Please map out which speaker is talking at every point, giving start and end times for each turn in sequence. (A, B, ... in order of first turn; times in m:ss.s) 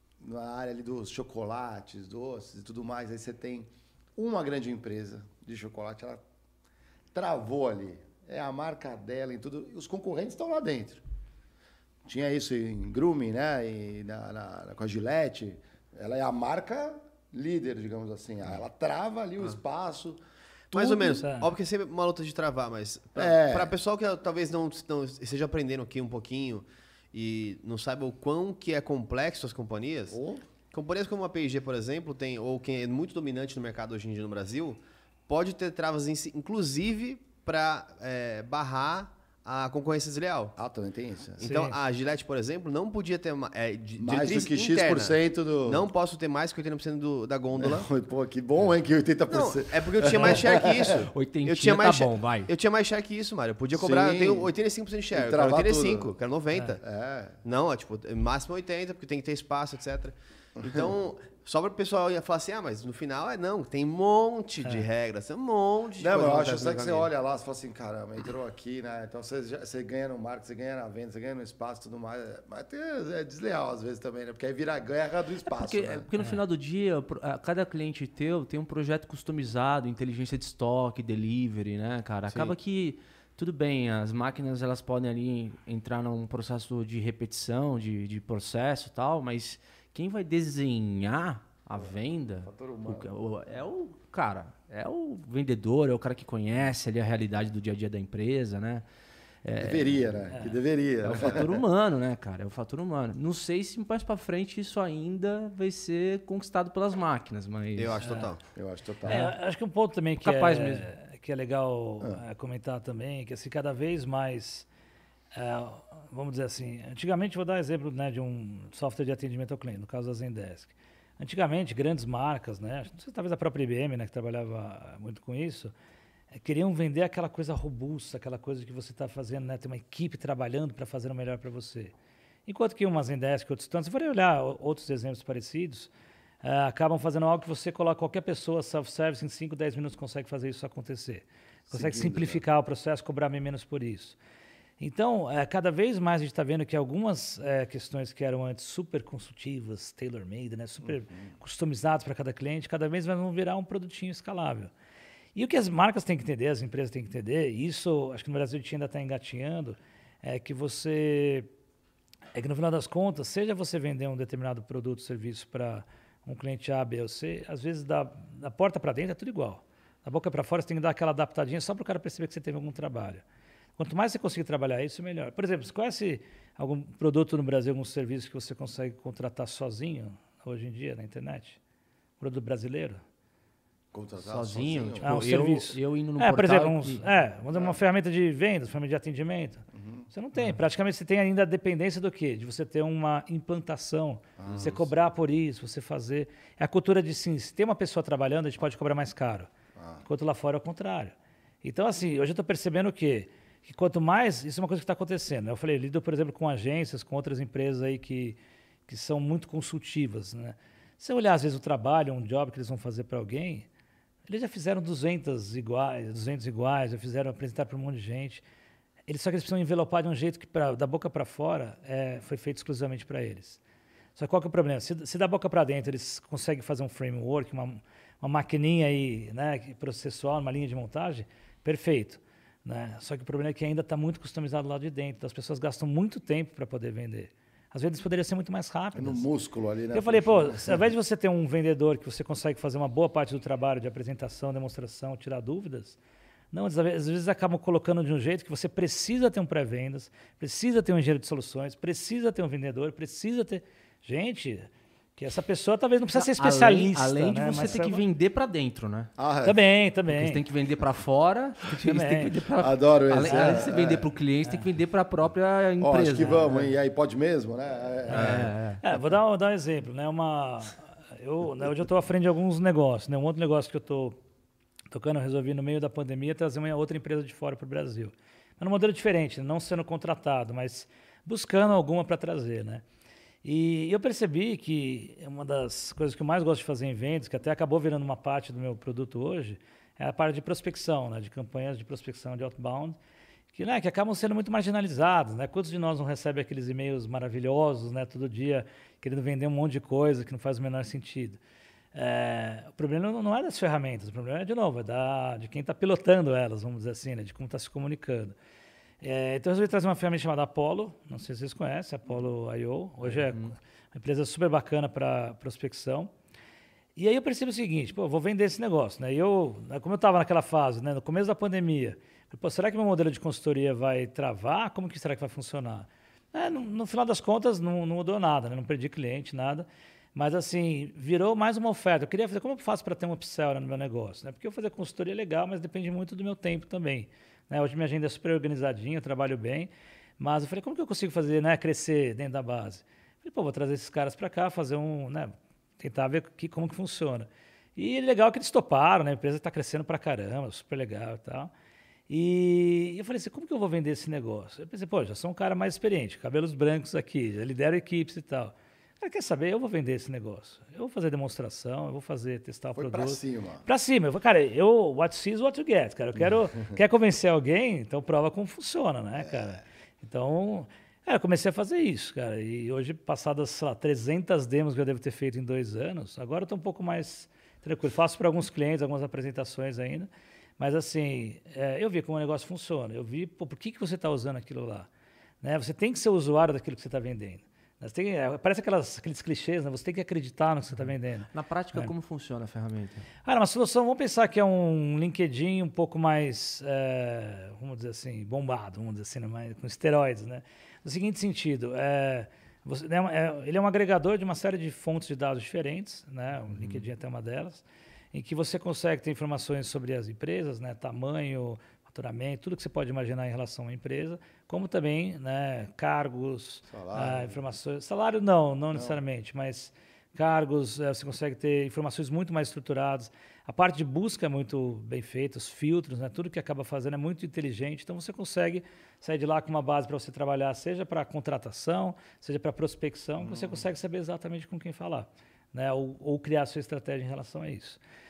0:00.2-0:06.2 A
0:07.1-0:11.0 A
0:12.1-0:20.2 A
0:20.7-0:30.2 B
0:20.7-0:21.2 A
0:21.2-0:21.5 C
0:23.2-0:23.7 A
0:30.1-0:30.4 A
0:30.7-0:40.5 B
0:40.6-0:41.4 A
0:41.4-0:47.9 B
0:41.5-0:41.7 D
0:44.0-0:45.9 A
0:47.6-0:51.0 A
0:49.3-0:56.8 B
0:50.3-0:52.5 D
0:53.7-0:54.5 A
0:55.1-0:56.1 A
0:56.8-0:57.4 A
0:57.4-1:07.1 B
1:00.6-1:00.9 A
1:06.0-1:16.1 A
1:15.4-1:38.9 D
1:22.3-1:22.6 B
1:31.8-1:33.1 A
1:39.4-1:40.4 D
1:39.6-1:41.6 A
1:41.0-1:48.3 D
1:47.7-1:48.4 B
1:48.0-1:48.3 C
1:48.6-1:49.3 A
1:49.0-1:49.4 D
1:49.1-1:54.7 C
1:50.2-1:50.9 D
1:55.3-2:05.7 C
2:06.3-2:11.9 C
2:12.4-2:15.9 C
2:16.4-2:24.2 C
2:21.7-2:22.4 A
2:24.8-2:34.7 C
2:30.9-2:31.3 A
2:35.4-2:41.5 C
2:42.3-2:53.2 C
2:53.8-3:01.6 C
3:02.2-3:03.0 C
3:03.9-3:05.1 A
3:04.2-3:07.0 D
3:05.0-3:19.5 C
3:07.5-3:07.8 A
3:09.8-3:10.1 A
3:14.4-3:14.7 A
3:14.5-3:14.8 B
3:19.8-3:20.0 A
3:20.0-3:33.7 C
3:34.3-3:38.4 C
3:39.1-3:43.6 C
3:44.2-3:59.3 C
3:58.9-4:00.8 A
3:59.9-4:06.0 C
4:06.5-4:18.0 C
4:16.2-4:19.1 D
4:19.2-4:19.6 A
4:19.4-4:20.4 C
4:20.1-4:26.7 D
4:21.8-4:22.4 C
4:22.6-4:24.1 A
4:23.2-4:23.7 C
4:25.8-4:28.5 A
4:28.1-4:28.8 D
4:28.1-4:28.5 B
4:28.8-4:34.2 C
4:34.9-4:42.8 C
4:43.4-4:53.0 C
4:53.5-5:01.4 C
5:01.9-5:08.4 C
5:09.0-5:16.1 C
5:13.0-5:13.5 D
5:17.0-5:51.5 C
5:52.1-6:24.9 C
6:02.7-6:03.6 A
6:09.2-6:09.4 A
6:25.4-6:31.9 C
6:31.3-6:33.1 D
6:33.2-7:17.8 C
6:46.5-6:46.8 D
6:56.7-6:57.4 A
6:58.7-6:59.0 A
7:13.2-7:13.6 A